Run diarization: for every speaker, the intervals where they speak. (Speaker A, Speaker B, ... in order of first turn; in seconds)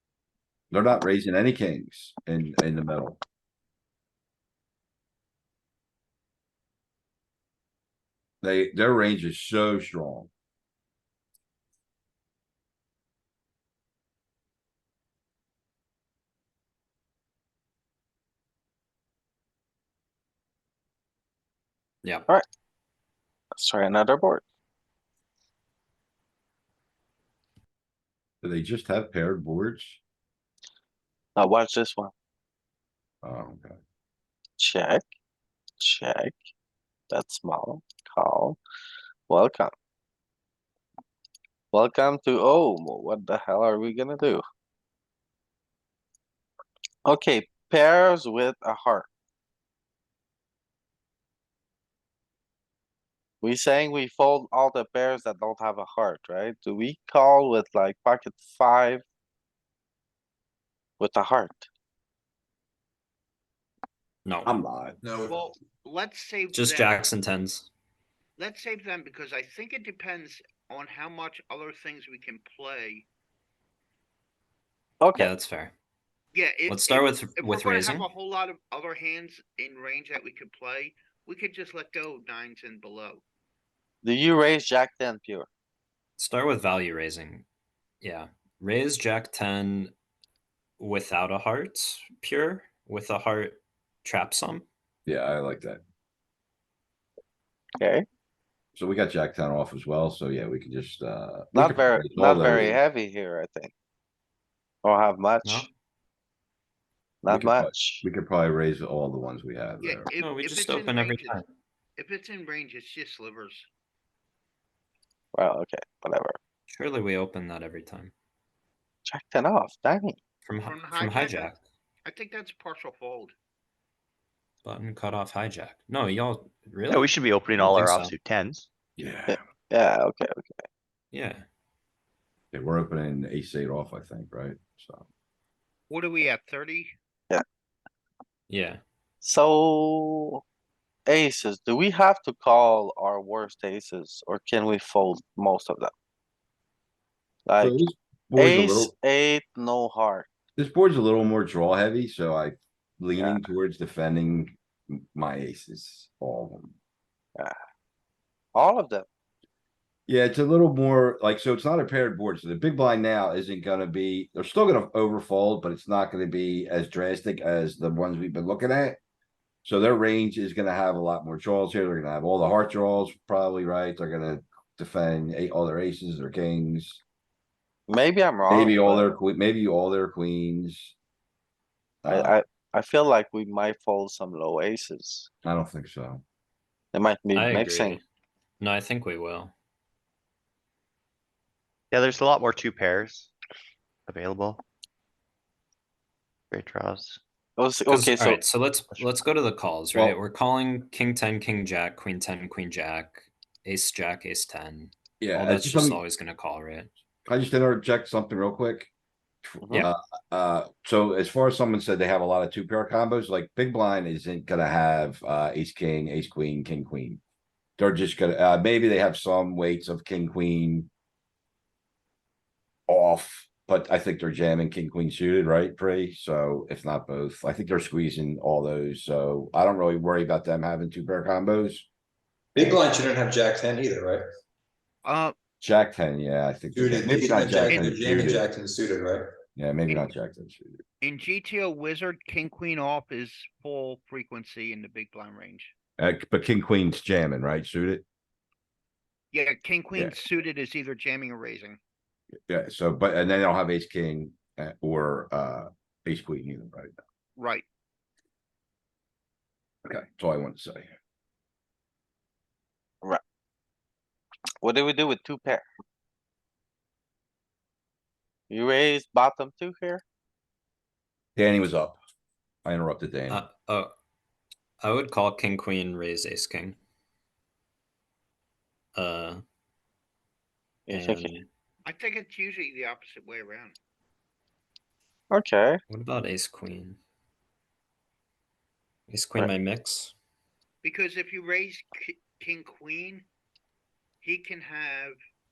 Speaker A: 0.7-3.2, 8.4-10.3, 28.4-30.0, 33.2-33.8, 64.4-65.0, 95.0-95.8, 98.7-102.8, 107.3-110.1, 129.0-129.4, 132.5-135.1, 147.6-148.9, 150.6-156.7, 160.1-169.0, 169.6-177.0, 178.5-180.9, 182.0-182.3, 185.4-186.2, 205.2-206.0, 207.3-208.9, 209.4-217.2, 217.8-220.9, 222.9-231.9, 232.6-232.8, 235.6-238.5, 239.6-240.7, 246.0-248.0, 252.5-256.9, 259.9-260.9, 271.4-272.0, 272.6-273.4
Speaker B: 23.6-24.4, 31.4-32.1, 34.6-35.0, 35.8-36.3, 37.1-38.6, 39.3-39.7, 41.7-44.4, 47.0-49.1, 53.4-59.0, 61.0-61.7, 75.0-75.3, 84.0-85.5, 97.8-98.0, 101.5-103.7, 104.8-105.7, 107.2-108.0, 115.3-116.4, 119.1-120.2, 129.3-130.6, 139.2-140.4, 141.1-145.9, 147.5-147.8, 148.4-150.3, 158.5-159.1, 177.9-179.1, 182.1-185.3, 186.9-188.0, 197.6-198.4, 209.6-209.9, 264.6-265.6, 268.5-270.0, 280.9-281.3, 285.3-285.8
Speaker C: 64.2-64.5, 66.5-67.7, 75.1-75.7, 76.7-78.1, 86.2-87.4, 88.0-89.9, 90.8-94.7, 105.4-105.7, 110.2-111.5, 116.7-118.1, 120.4-121.6, 124.6-128.1, 131.1-131.4, 138.5-138.8, 187.3-188.0, 188.6-189.5, 197.9-206.9, 273.3-273.9, 274.8-276.8, 278.9-279.4, 280.9-281.5, 285.9-287.0, 289.1-290.1
Speaker D: 65.0-65.5, 232.5-234.3, 236.7-239.3
Speaker E: 65.2-67.0, 68.4-73.0, 76.3-83.2, 109.8-111.4, 112.0-113.7, 120.6-121.5, 122.0-123.3, 135.9-136.9, 235.0-235.3, 237.7-238.0, 241.0-245.7, 249.3-251.8, 257.4-257.6, 281.8-283.7, 290.8-293.2, 294.2-295.1
Speaker F: 126.9-128.7, 191.9-193.3, 194.1-194.6, 196.5-197.2